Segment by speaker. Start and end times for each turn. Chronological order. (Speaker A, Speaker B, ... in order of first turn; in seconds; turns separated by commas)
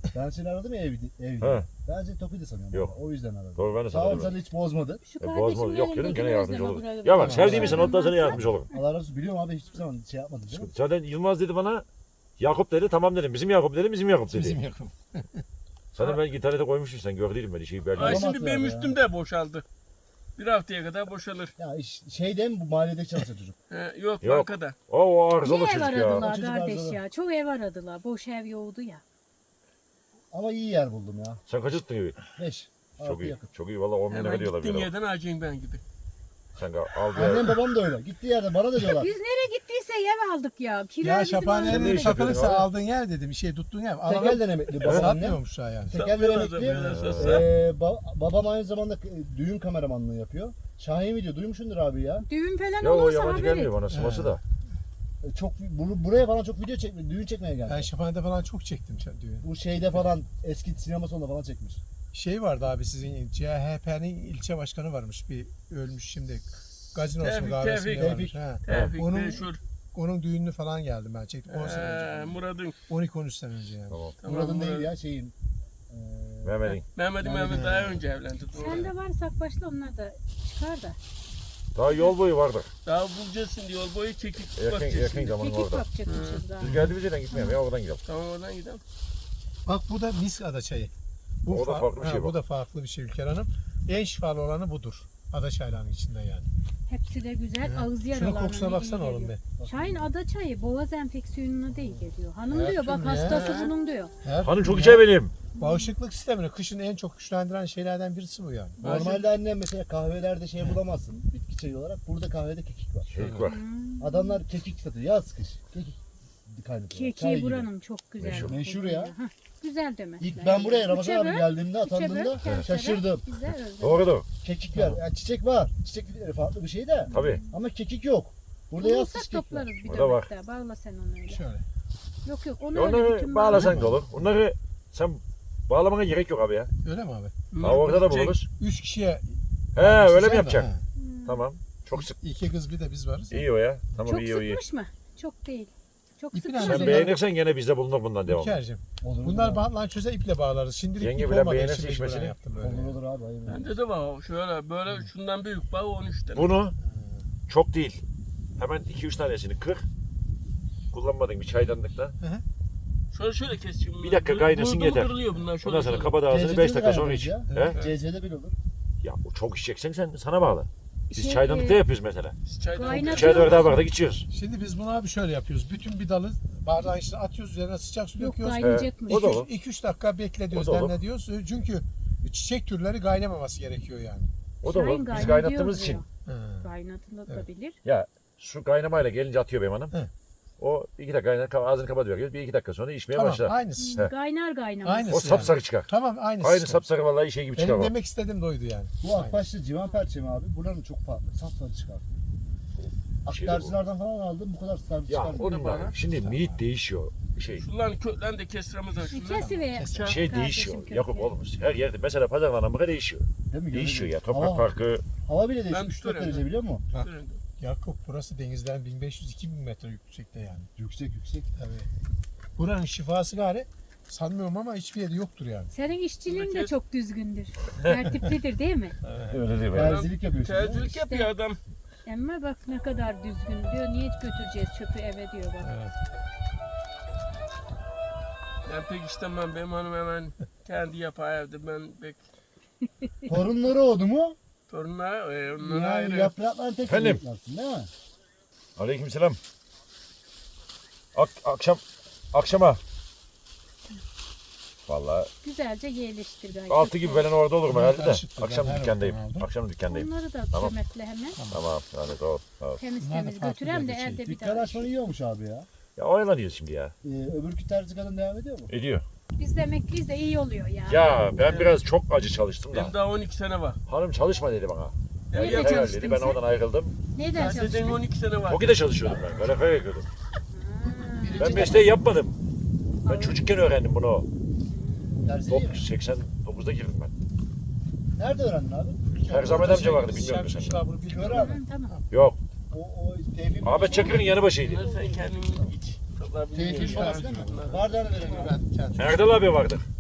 Speaker A: 0.1-5.0, Speaker B: 1.4-1.7, Speaker B: 3.5-4.3, Speaker C: 5.0-8.4, Speaker B: 5.2-8.7, Speaker D: 7.2-7.8, Speaker A: 7.4-10.7, Speaker B: 10.5-11.9, Speaker B: 12.4-14.6, Speaker D: 14.3-15.4, Speaker B: 15.9-18.3, Speaker E: 18.0-19.6, Speaker A: 18.0-19.0, Speaker E: 20.4-21.5, Speaker A: 21.6-23.6, Speaker E: 23.7-24.8, Speaker B: 24.2-26.3, Speaker C: 25.4-29.0, Speaker A: 26.2-27.0, Speaker A: 30.3-31.4, Speaker B: 31.5-32.3, Speaker A: 32.4-33.5, Speaker B: 33.0-34.9, Speaker E: 34.1-35.8, Speaker B: 36.6-37.6, Speaker A: 37.1-39.1, Speaker C: 38.8-42.5, Speaker D: 41.0-46.1, Speaker B: 41.7-42.7, Speaker A: 44.0-52.3, Speaker B: 44.8-45.1, Speaker E: 45.9-47.5, Speaker D: 46.7-47.0, Speaker B: 46.9-47.5, Speaker C: 52.3-53.7, Speaker B: 52.8-54.4, Speaker D: 53.9-54.4, Speaker A: 55.2-57.9, Speaker D: 57.7-60.0, Speaker A: 59.4-61.8, Speaker D: 62.1-72.3, Speaker E: 67.2-69.6, Speaker A: 67.9-68.4, Speaker B: 68.7-69.0, Speaker E: 71.5-72.8, Speaker D: 72.9-74.0, Speaker B: 73.9-74.2, Speaker E: 74.2-74.9, Speaker A: 74.2-75.3, Speaker A: 75.9-78.0, Speaker B: 76.4-76.8, Speaker E: 77.0-78.9, Speaker D: 77.5-77.9, Speaker C: 78.5-81.0, Speaker B: 81.8-82.7, Speaker E: 82.9-85.2, Speaker B: 84.6-85.9, Speaker C: 85.1-87.6, Speaker E: 86.1-86.5, Speaker B: 86.6-88.0, Speaker E: 88.1-88.8, Speaker D: 89.7-90.9, Speaker D: 91.5-96.5, Speaker B: 91.5-92.4, Speaker C: 96.9-104.1, Speaker D: 97.6-99.4, Speaker A: 99.6-100.1, Speaker A: 101.7-102.1, Speaker D: 102.5-103.4, Speaker E: 103.2-103.7, Speaker D: 104.2-105.0, Speaker B: 104.4-105.3, Speaker C: 105.5-105.9, Speaker D: 105.6-108.8, Speaker A: 108.8-113.1, Speaker E: 108.8-109.3, Speaker B: 113.1-113.6, Speaker D: 113.2-113.5, Speaker C: 113.5-114.4, Speaker A: 114.0-117.7, Speaker C: 116.9-124.1, Speaker B: 118.2-118.5, Speaker A: 118.3-119.2, Speaker A: 120.2-123.3, Speaker B: 122.4-122.7, Speaker B: 123.8-124.3, Speaker A: 124.4-129.7, Speaker D: 124.7-125.0, Speaker C: 127.1-127.6, Speaker B: 127.1-127.4, Speaker C: 128.8-131.4, Speaker B: 129.8-130.3, Speaker D: 131.3-131.6, Speaker C: 132.2-133.9, Speaker B: 132.7-136.7, Speaker D: 136.8-137.8, Speaker E: 137.5-138.3, Speaker B: 137.6-138.5, Speaker D: 138.6-140.8, Speaker B: 139.8-140.7, Speaker C: 141.0-141.4, Speaker B: 141.3-142.2, Speaker D: 142.0-143.5, Speaker B: 143.3-144.6, Speaker C: 144.1-147.1, Speaker D: 146.3-147.2, Speaker B: 146.6-148.6, Speaker D: 148.3-153.0, Speaker A: 149.0-149.7, Speaker B: 151.0-152.4, Speaker A: 152.6-153.8, Speaker E: 153.5-156.5, Speaker B: 156.3-156.8, Speaker D: 156.8-157.3, Speaker B: 157.5-158.0, Speaker B: 158.6-159.9, Speaker B: 160.9-162.2, Speaker E: 163.1-166.2, Speaker B: 164.0-167.8, Speaker A: 166.2-168.6, Speaker D: 167.5-167.8, Speaker B: 169.0-174.3, Speaker C: 171.1-171.8, Speaker E: 172.5-173.8, Speaker C: 172.7-173.8, Speaker D: 174.3-184.3, Speaker C: 178.2-179.4, Speaker B: 178.6-179.5, Speaker B: 180.5-181.0, Speaker B: 184.6-186.0, Speaker C: 184.7-186.1, Speaker D: 186.3-186.7, Speaker C: 186.6-187.8, Speaker B: 187.8-189.9, Speaker B: 190.6-194.1, Speaker D: 193.1-194.0, Speaker C: 193.8-195.5, Speaker D: 194.8-196.8, Speaker B: 195.1-197.9, Speaker D: 197.6-199.4, Speaker A: 199.0-202.2, Speaker B: 202.8-203.8, Speaker A: 203.2-205.9, Speaker B: 205.1-207.7, Speaker E: 205.6-205.9, Speaker D: 205.9-206.6, Speaker E: 207.5-210.2, Speaker C: 209.1-211.3, Speaker D: 209.3-210.2, Speaker B: 210.1-215.0, Speaker A: 213.5-214.7, Speaker A: 215.2-216.9, Speaker E: 215.7-217.4, Speaker D: 216.9-220.7, Speaker A: 220.8-221.5, Speaker D: 221.6-221.9, Speaker D: 222.6-225.7, Speaker C: 225.7-229.0, Speaker E: 226.3-226.8, Speaker D: 229.1-229.4, Speaker B: 229.3-230.0, Speaker A: 229.7-230.9, Speaker E: 229.8-231.6, Speaker C: 230.8-231.3, Speaker C: 232.1-235.8, Speaker D: 235.6-235.9, Speaker E: 238.7-242.2, Speaker A: 243.3-244.4, Speaker E: 244.7-246.3, Speaker A: 245.6-247.9, Speaker B: 246.8-247.2, Speaker B: 248.8-249.4, Speaker B: 251.1-251.8, Speaker B: 252.3-252.8, Speaker B: 254.9-255.3, Speaker C: 255.4-257.3, Speaker B: 256.7-260.7, Speaker D: 257.7-259.5, Speaker C: 259.9-261.4, Speaker B: 261.5-262.8, Speaker C: 262.8-264.9, Speaker D: 263.0-264.2, Speaker A: 264.2-265.7, Speaker B: 266.0-266.9, Speaker A: 267.0-268.7, Speaker B: 268.7-269.1, Speaker C: 269.4-271.2, Speaker B: 270.9-272.9, Speaker E: 271.4-271.8, Speaker E: 272.7-273.8, Speaker B: 273.9-276.9, Speaker E: 275.3-276.0, Speaker C: 275.3-276.4, Speaker C: 277.1-277.8, Speaker A: 277.4-278.0, Speaker E: 277.4-278.7, Speaker B: 278.5-280.1, Speaker C: 280.5-281.8, Speaker A: 281.0-282.0, Speaker B: 281.4-282.4, Speaker C: 283.0-283.4, Speaker B: 283.1-284.3, Speaker C: 284.7-285.1, Speaker A: 285.2-285.9, Speaker B: 285.5-287.1, Speaker A: 288.2-290.2, Speaker D: 289.3-292.1, Speaker B: 289.3-290.8, Speaker A: 291.0-291.6, Speaker C: 291.2-292.0, Speaker B: 292.1-292.4, Speaker A: 292.7-295.7, Speaker B: 293.6-294.8, Speaker E: 294.6-298.6, Speaker A: 296.5-299.2, Speaker D: 296.7-299.2, Speaker B: 299.0-299.9